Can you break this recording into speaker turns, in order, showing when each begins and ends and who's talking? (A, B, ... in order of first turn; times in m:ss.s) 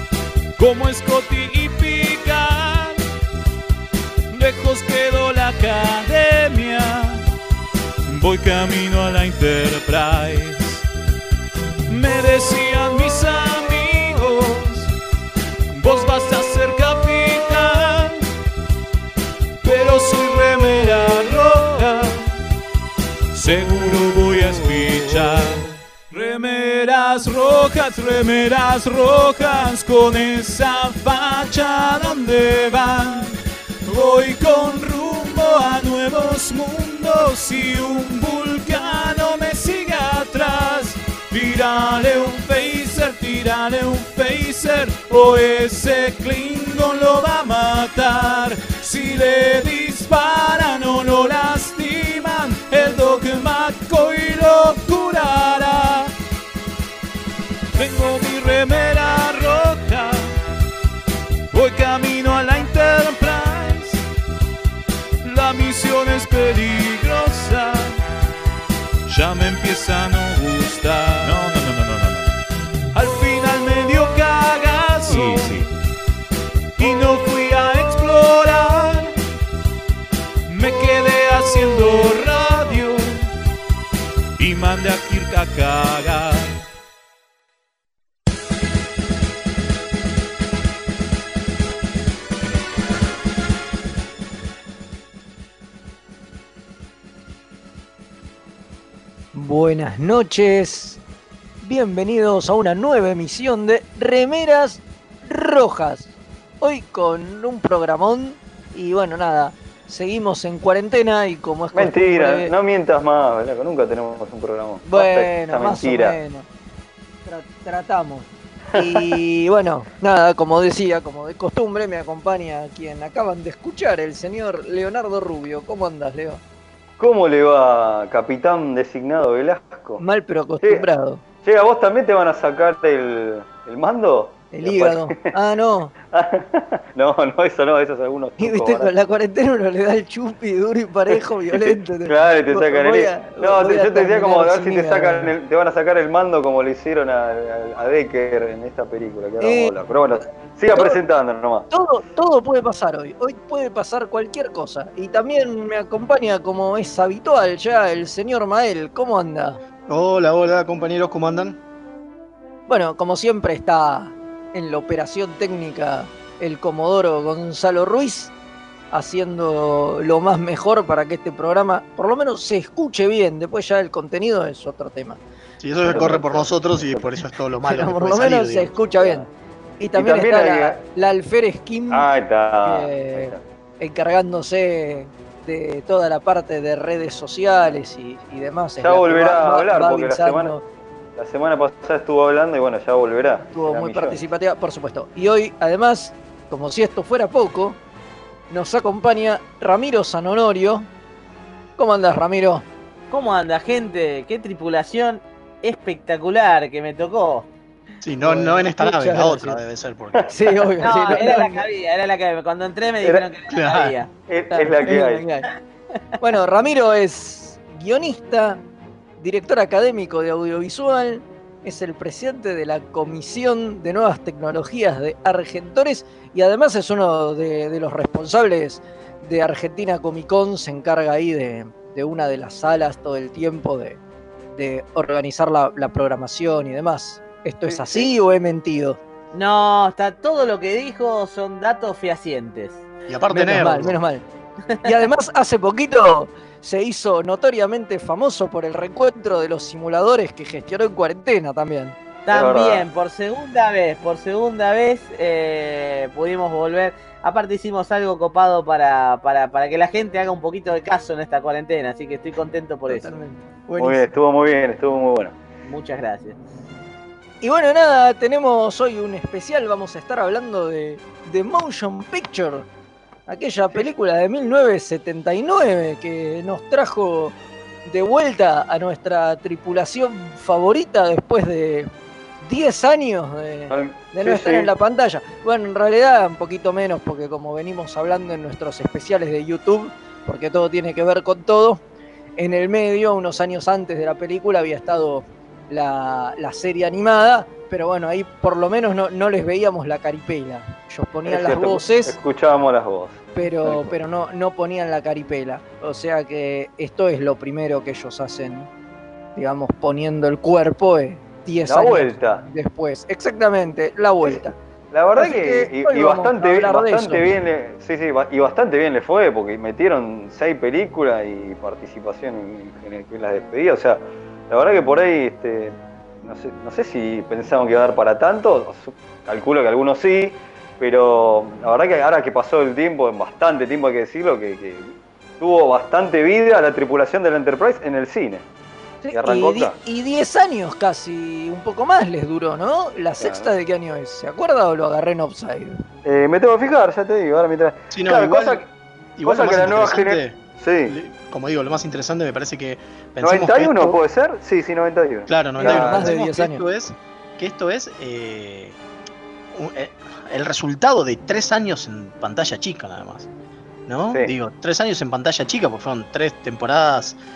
0:00.6-0:03.0 A
0:04.3-0:07.2 A
0:08.0-0:10.8 A
0:11.9-0:14.9 A
0:15.7-0:18.2 A
0:19.6-0:22.3 A
0:23.3-0:56.1 A
0:57.7-1:00.3 A
1:01.5-1:04.0 A
1:05.2-1:08.0 A
1:09.1-1:12.2 A
1:12.9-1:15.7 A
1:16.8-1:19.1 A
1:20.4-1:23.3 A
1:24.4-1:26.6 A
1:39.3-1:41.0 B
1:41.6-1:52.5 B
1:51.7-1:56.2 C
1:54.8-1:56.5 B
1:57.2-2:06.4 B
1:58.7-1:59.2 C
2:07.0-2:10.0 C
2:10.0-2:11.2 B
2:10.6-2:10.9 C
2:11.4-2:15.3 C
2:14.5-2:15.9 B
2:16.1-2:18.9 C
2:18.4-2:25.3 B
2:21.5-2:31.7 C
2:29.4-2:31.0 B
2:31.7-2:39.6 B
2:39.9-2:41.6 D
2:42.7-2:48.3 B
2:48.9-2:55.2 B
2:55.6-2:58.7 D
2:55.8-2:56.5 C
2:57.7-2:59.3 B
2:59.0-2:59.2 C
2:59.8-3:02.1 B
2:59.9-3:00.8 C
3:01.9-3:03.4 C
3:02.6-3:10.6 B
3:08.8-3:10.5 C
3:11.2-3:14.2 C
3:13.5-3:17.8 B
3:18.5-3:20.9 B
3:21.8-3:22.6 B
3:23.1-3:27.5 E
3:28.0-3:30.3 D
3:28.2-3:29.6 B
3:30.2-3:31.2 C
3:30.3-3:31.6 B
3:30.8-3:34.1 E
3:33.5-3:33.9 D
3:34.3-3:35.2 C
3:34.5-3:35.5 B
3:36.2-3:38.6 B
3:39.2-3:54.0 B
3:54.5-3:59.0 B
3:57.7-3:58.1 C
3:59.3-4:02.8 E
4:03.1-4:04.0 D
4:03.3-4:04.2 B
4:04.8-4:12.0 B
4:12.3-4:23.2 E
4:12.3-4:12.8 C
4:22.9-4:24.1 B
4:23.8-4:25.3 C
4:25.6-4:26.4 E
4:27.4-4:32.6 B
4:33.3-4:41.9 B
4:42.4-4:51.8 B
4:43.7-4:44.7 C
4:52.4-5:02.1 B
5:01.2-5:03.9 C
5:03.3-5:08.7 B
5:09.3-5:14.5 B
5:11.7-5:12.4 C
5:14.2-5:38.4 C
5:15.2-5:17.3 B
5:39.0-5:45.8 B
5:39.1-5:39.7 C
5:43.2-5:43.5 C
5:46.0-5:48.6 C
5:47.9-5:48.6 D
5:49.2-5:54.0 D
5:49.2-5:51.0 C
5:53.2-5:56.1 C
5:55.3-5:58.8 D
5:55.6-5:56.6 B
5:59.5-6:03.3 D
6:03.9-6:07.2 D